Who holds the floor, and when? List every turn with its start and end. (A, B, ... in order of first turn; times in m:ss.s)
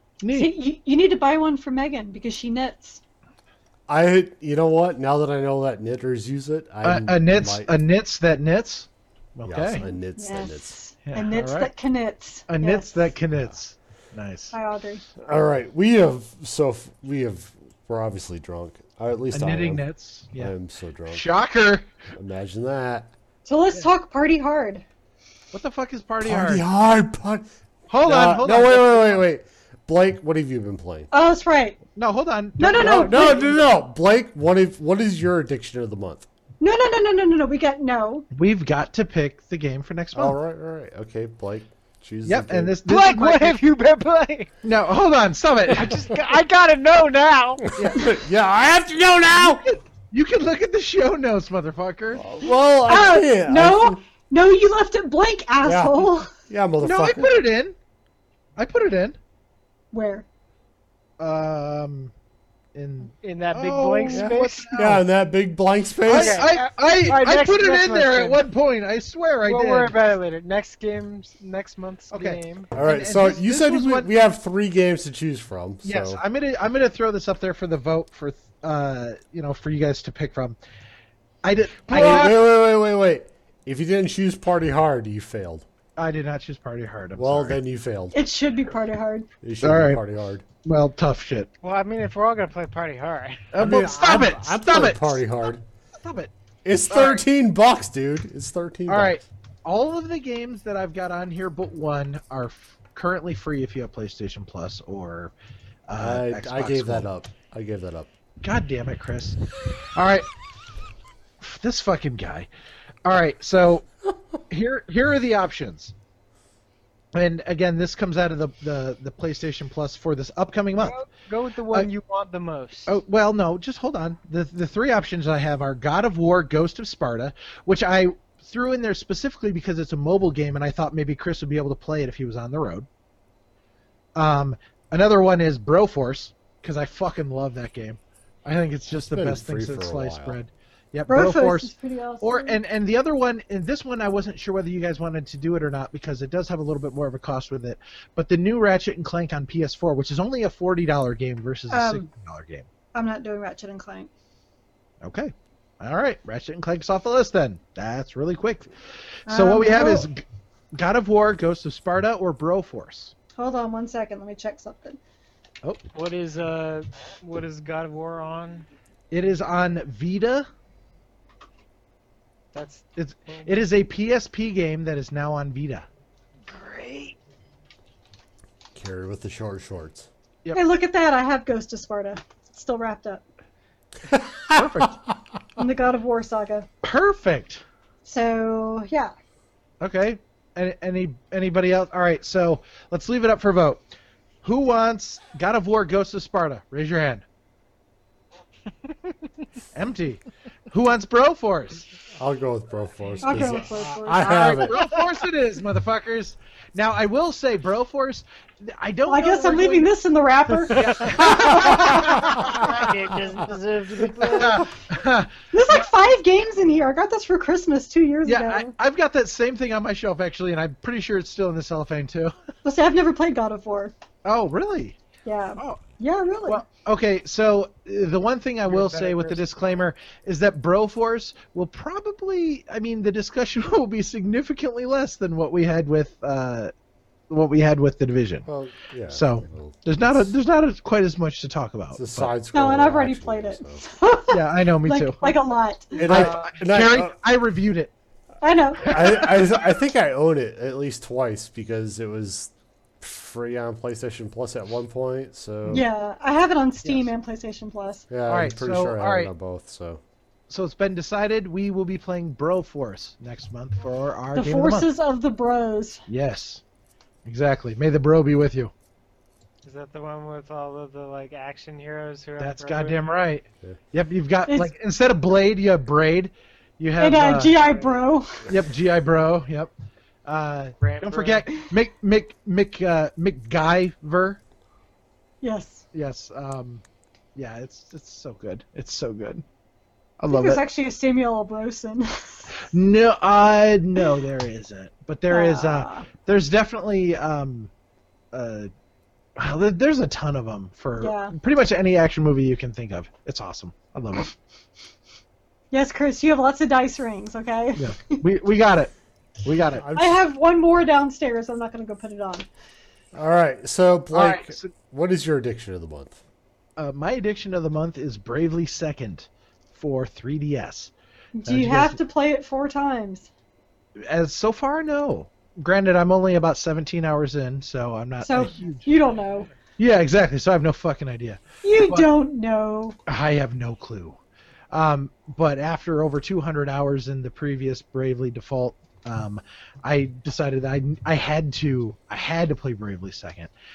0:00.2-0:00.5 A
0:00.3-0:03.0 B
0:03.9-0:07.7 C
0:06.8-0:09.8 A
0:09.4-0:10.8 C
0:10.2-0:12.9 B
0:11.0-0:11.7 A
0:12.5-0:14.5 A
0:14.5-0:15.0 B
0:15.2-0:19.8 C
0:19.3-0:20.5 A
0:20.4-0:21.2 C
0:21.1-0:21.8 A
0:22.1-0:23.1 C
0:23.4-0:24.8 B
0:25.5-0:26.6 A
0:26.2-0:27.4 C
0:27.9-0:29.2 A
0:28.0-0:31.1 C
0:31.1-0:31.8 B
0:32.0-0:33.6 A
0:32.6-0:33.5 B
0:32.7-0:36.3 C
0:36.6-0:38.3 B
0:38.3-0:40.4 A
0:40.1-0:42.8 C
0:42.2-0:43.6 A
0:42.8-0:44.5 D
0:44.6-0:46.1 A
0:45.7-0:47.7 D
0:47.6-0:49.6 C
0:47.8-0:48.1 A
0:49.3-0:52.3 A
0:52.1-0:54.0 C
0:52.8-0:56.3 B
0:55.6-0:57.3 C
0:56.8-0:57.8 A
0:58.6-0:59.2 A
0:59.9-1:00.2 B
1:01.2-1:02.1 A
1:02.7-1:05.0 A
1:03.2-1:04.7 D
1:04.1-1:06.5 C
1:06.0-1:10.0 A
1:06.1-1:08.4 D
1:09.5-1:12.7 D
1:12.1-1:14.1 A
1:12.7-1:16.2 C
1:15.8-1:20.6 A
1:21.4-1:22.5 A
1:21.9-1:25.6 C
1:26.0-1:27.6 A
1:27.2-1:28.2 C
1:28.1-1:29.3 B
1:29.4-1:30.4 C
1:29.6-1:30.0 A
1:30.6-1:31.5 A
1:31.6-1:33.5 D
1:33.5-1:35.2 A
1:33.6-1:35.6 C
1:36.0-1:36.3 A
1:36.6-1:39.2 C
1:36.9-1:37.2 A
1:38.9-1:45.3 A
1:45.9-1:47.0 A
1:45.9-1:48.1 C
1:48.4-1:49.4 A
1:49.9-1:50.3 A
1:51.4-1:52.5 A
1:53.0-1:53.9 A
1:54.5-1:55.9 A
1:57.1-2:01.0 A
2:00.8-2:03.0 D
2:02.9-2:12.9 A
2:14.2-2:32.7 A
2:18.9-2:20.4 C
2:21.1-2:22.6 B
2:31.7-2:32.1 B
2:32.9-2:34.1 B
2:35.0-2:38.7 A
2:39.2-2:43.1 A
2:39.3-2:40.1 B
2:43.4-2:45.0 B
2:45.9-2:48.7 D
2:49.1-2:50.5 A
2:52.5-2:53.6 D
2:53.0-2:55.8 A
2:56.5-2:57.2 D
2:58.7-3:00.1 C
3:00.5-3:03.2 B
3:04.1-3:04.8 C
3:04.5-3:05.0 A
3:05.6-3:06.7 B
3:06.8-3:07.6 A
3:08.0-3:09.1 B
3:09.8-3:13.8 A
3:14.4-3:17.2 A
3:19.7-3:21.9 A
3:22.2-3:24.8 C
3:23.2-3:24.7 B
3:24.2-3:29.9 A
3:29.0-3:32.5 B
3:30.7-3:32.9 A
3:31.2-3:34.7 D
3:34.2-3:35.8 A
3:35.5-3:38.7 B
3:38.2-3:42.3 A
3:42.6-3:43.9 B
3:44.2-3:45.0 A
3:45.2-3:46.6 B
3:45.6-3:45.8 A
3:46.4-3:56.7 A
3:48.7-3:49.5 D
3:57.3-3:58.5 A
3:58.4-4:00.3 C
3:59.1-4:02.3 A
4:01.9-4:03.8 C
4:02.5-4:06.1 B
4:04.3-4:05.4 A
4:05.9-4:07.9 A
4:06.0-4:07.1 C
4:06.1-4:06.6 D
4:08.4-4:09.4 B
4:08.8-4:09.2 A
4:08.9-4:15.8 C
4:15.7-4:18.1 B
4:16.8-4:17.1 A
4:18.1-4:20.0 C
4:18.2-4:19.3 A
4:20.5-4:24.9 A
4:24.3-4:26.0 B
4:26.1-4:26.6 A
4:27.2-4:28.7 A
4:29.6-4:33.0 D
4:32.4-4:37.7 A
4:37.0-4:38.5 B
4:37.6-4:38.0 D
4:38.5-4:39.7 A
4:40.2-4:44.4 A
4:40.8-4:41.5 D
4:45.4-4:45.8 B
4:45.9-4:46.8 A
4:47.3-4:49.4 A
4:50.2-4:50.6 A
4:50.3-4:52.6 B
4:52.6-4:57.7 A
4:55.3-4:56.1 B
4:58.3-4:58.7 A
4:59.4-5:04.3 A
5:01.0-5:01.3 B
5:05.7-5:08.2 B
5:07.8-5:08.9 A
5:09.4-5:09.9 A
5:09.8-5:10.2 C
5:09.9-5:12.5 B
5:13.1-5:16.2 C
5:14.1-5:14.7 A
5:16.8-5:20.9 A
5:21.4-5:23.3 B
5:21.4-5:22.0 A
5:24.0-5:28.9 A
5:28.2-5:29.5 B
5:29.8-5:32.1 A
5:31.6-5:33.0 B
5:33.1-5:34.2 A
5:34.7-5:43.5 A